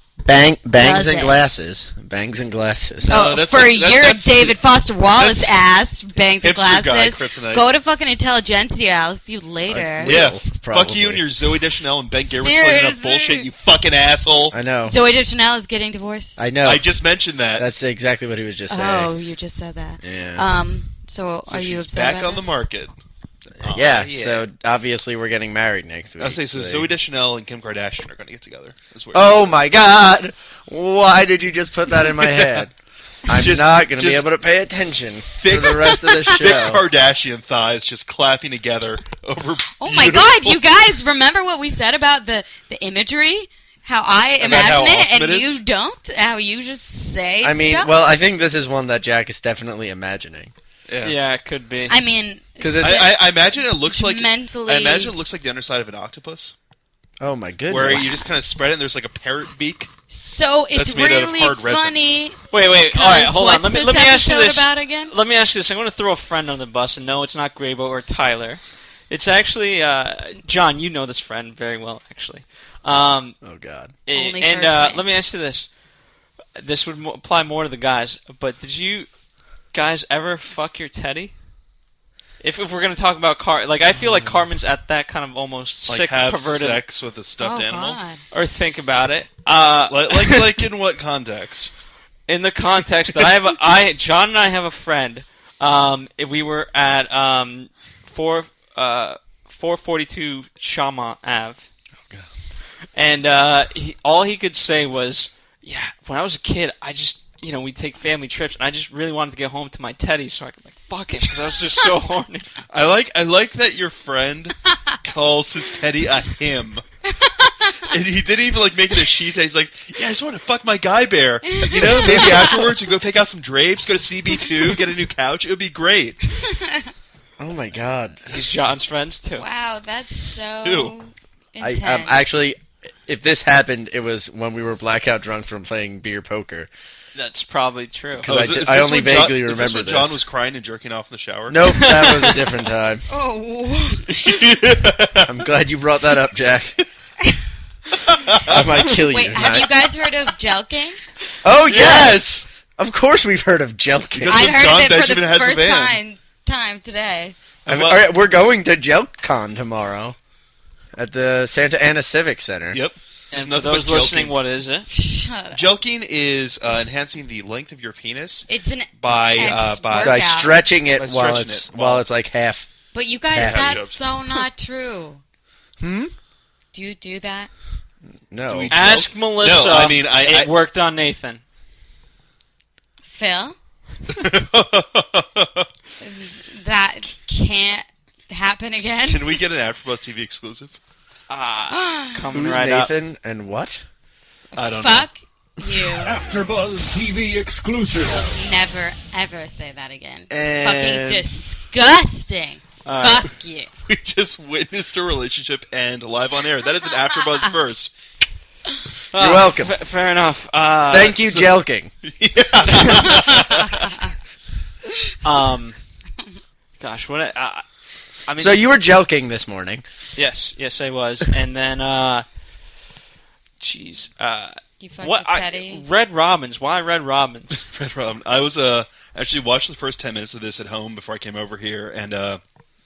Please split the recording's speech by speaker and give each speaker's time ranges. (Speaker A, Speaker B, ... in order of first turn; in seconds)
Speaker A: 0.2-3.2, 9.7-11.2, 14.5-15.0, 16.4-16.9, 17.6-19.1, 20.0-20.5, 23.6-26.9, 29.1-32.7, 33.3-36.8, 47.4-50.5, 52.6-53.2, 57.2-58.2, 73.4-74.0, 127.4-128.4, 131.6-136.7, 138.2-140.2, 141.5-143.1, 145.2-146.8, 148.5-149.8, 151.4-154.6, 157.7-160.2, 161.0-162.8, 170.0-172.7, 173.3-173.8, 175.8-176.1, 178.3-178.7, 192.3-193.8, 209.1-209.8, 210.9-211.9, 218.4-219.8
Speaker B: 0.8-1.4, 3.1-10.1, 12.3-13.5, 14.8-16.4, 18.7-22.4, 36.1-36.4, 39.8-47.9, 51.9-55.1, 60.1-65.1, 74.1-75.0, 87.4-88.2, 117.1-117.8, 121.5-122.8, 126.4-126.9, 129.4-132.4, 143.1-144.6, 149.0-151.0, 154.3-157.4, 164.9-165.7, 168.5-170.6, 172.9-175.2, 176.7-177.5, 183.1-183.6, 186.0-189.4, 191.7-192.3, 194.5-196.2, 198.2-203.7, 213.1-213.9, 224.8-225.8
Speaker C: 3.0-4.6, 5.1-5.5, 6.4-7.7, 10.0-14.6, 16.6-17.7, 21.5-22.9, 23.6-24.5, 26.2-29.6, 32.1-32.7, 33.3-34.3, 35.4-40.6, 44.4-45.6, 50.9-51.2, 52.8-56.5, 57.7-59.9, 60.7-62.0, 85.9-88.0, 89.9-91.7, 112.7-116.8, 117.9-126.2, 130.6-130.9, 138.2-141.6, 144.1-145.4, 148.1-148.9, 151.7-152.3, 154.2-156.0, 157.7-158.1, 162.7-164.3, 165.5-168.5, 169.0-172.0, 173.3-174.0, 178.5-180.5, 184.1-185.7, 189.1-190.8, 194.6-195.1, 200.3-201.3, 203.9-207.9, 211.2-213.9, 227.7-232.4
Speaker D: 51.0-52.0, 62.5-73.4, 74.1-75.7, 76.6-79.1, 79.7-81.3, 82.4-86.8, 88.3-90.5, 92.3-101.6, 103.0-112.5, 128.3-129.4, 137.2-138.3, 141.8-142.4, 163.3-164.9, 178.7-181.4, 191.3-192.9, 202.8-203.3, 209.1-211.2, 215.2-215.8, 216.8-217.6, 218.3-218.6, 220.2-222.3, 223.6-227.6
Speaker E: 196.0-198.3